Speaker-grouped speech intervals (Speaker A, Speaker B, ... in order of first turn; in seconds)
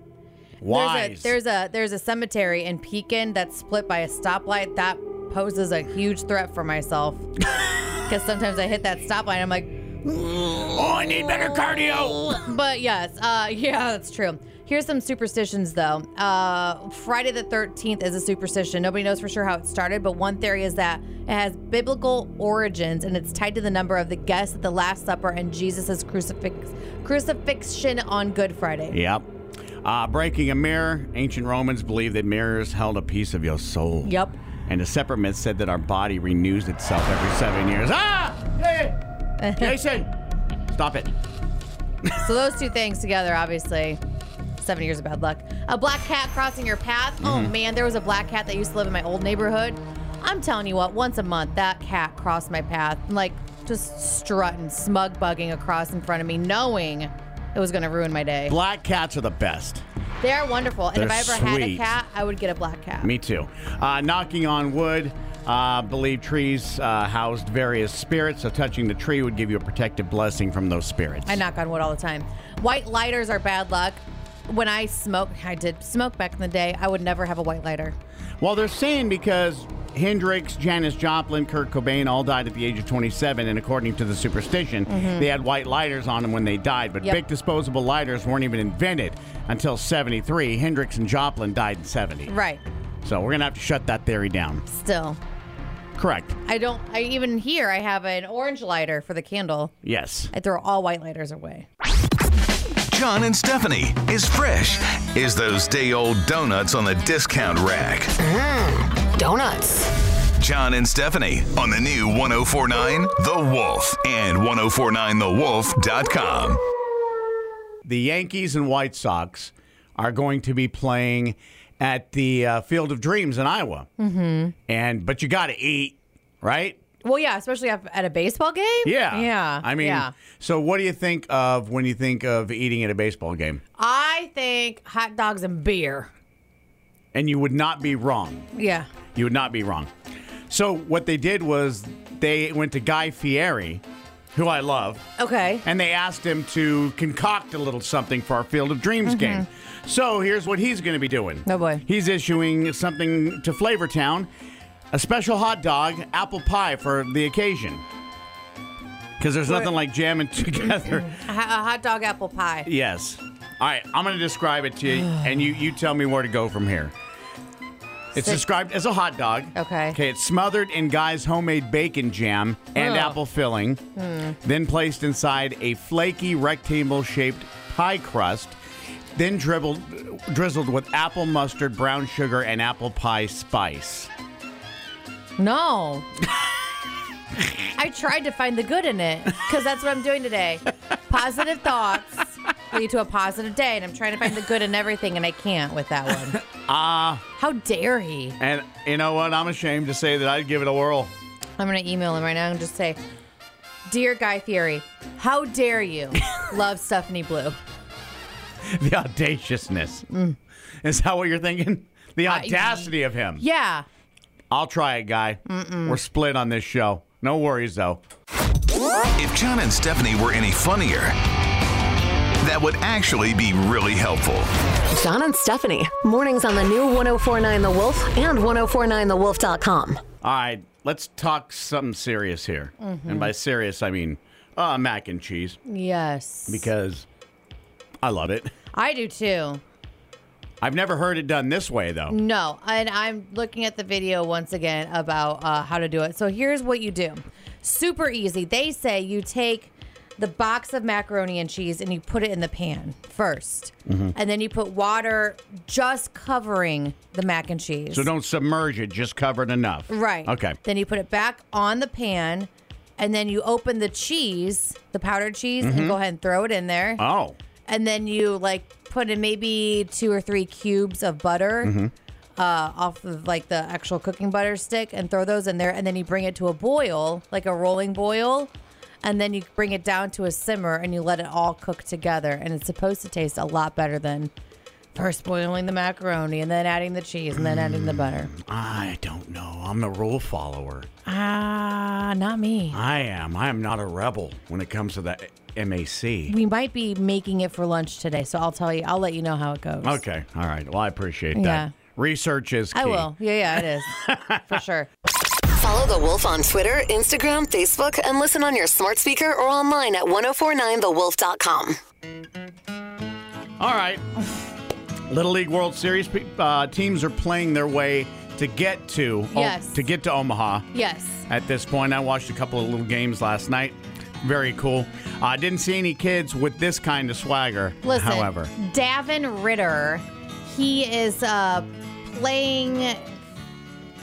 Speaker A: 0.6-1.4, 10.4-12.4, 28.9-29.3, 29.8-39.0, 39.6-40.1, 40.7-41.1, 47.2-47.5, 58.5-59.8, 61.0-61.9, 63.0-71.4, 78.4-92.3, 93.0-94.6, 96.0-96.4, 99.8-100.3, 117.8-123.9, 124.7-126.8, 128.8-133.6, 137.1-138.5, 139.2-139.9, 140.5-143.8, 144.3-145.0, 145.6-154.3, 154.9-157.8, 159.2-161.2, 162.7-166.9, 168.2-173.8, 174.4-178.6, 179.2-184.1, 196.6-197.2, 198.4-201.1, 208.7-210.1, 210.8-213.4, 214.5-218.0, 230.2-235.6, 236.5-237.1, 238.0-238.5, 240.6-242.2, 253.9-254.1, 257.9-260.6, 265.6-266.0, 267.0-267.4, 271.6-271.9, 287.3-290.9, 292.7-296.4, 299.8-303.1, 304.0-304.6, 313.6-314.1, 315.1-320.7, 321.3-328.5
Speaker B: 0.7-7.4, 8.0-29.0, 34.0-34.4, 39.4-39.8, 42.2-44.0, 44.6-58.6, 60.2-63.1, 71.3-78.0, 84.9-85.3, 92.3-92.6, 94.7-95.2, 96.5-99.7, 100.3-101.7, 124.0-124.5, 127.0-130.1, 133.8-136.1, 138.6-138.9, 145.2-145.6, 149.1-149.4, 151.5-151.8, 161.2-162.7, 169.6-170.0, 172.8-173.2, 174.0-174.3, 185.4-186.1, 187.8-196.4, 197.4-198.4, 201.6-203.0, 203.9-207.6, 210.1-210.4, 212.3-213.8, 215.5-216.0, 232.8-233.3, 235.7-236.7, 238.7-239.6, 242.1-258.1, 259.9-267.0, 267.7-271.7, 272.4-278.5, 279.0-284.3, 284.9-288.3, 291.1-292.8, 296.3-300.0, 301.4-301.7, 302.7-304.9, 319.3-319.8, 320.7-321.2, 327.8-333.1
Speaker C: 102.9-108.1, 110.4-116.6, 219.2-221.2, 222.4-224.5
Speaker D: 108.2-109.9, 224.9-230.0, 305.5-311.8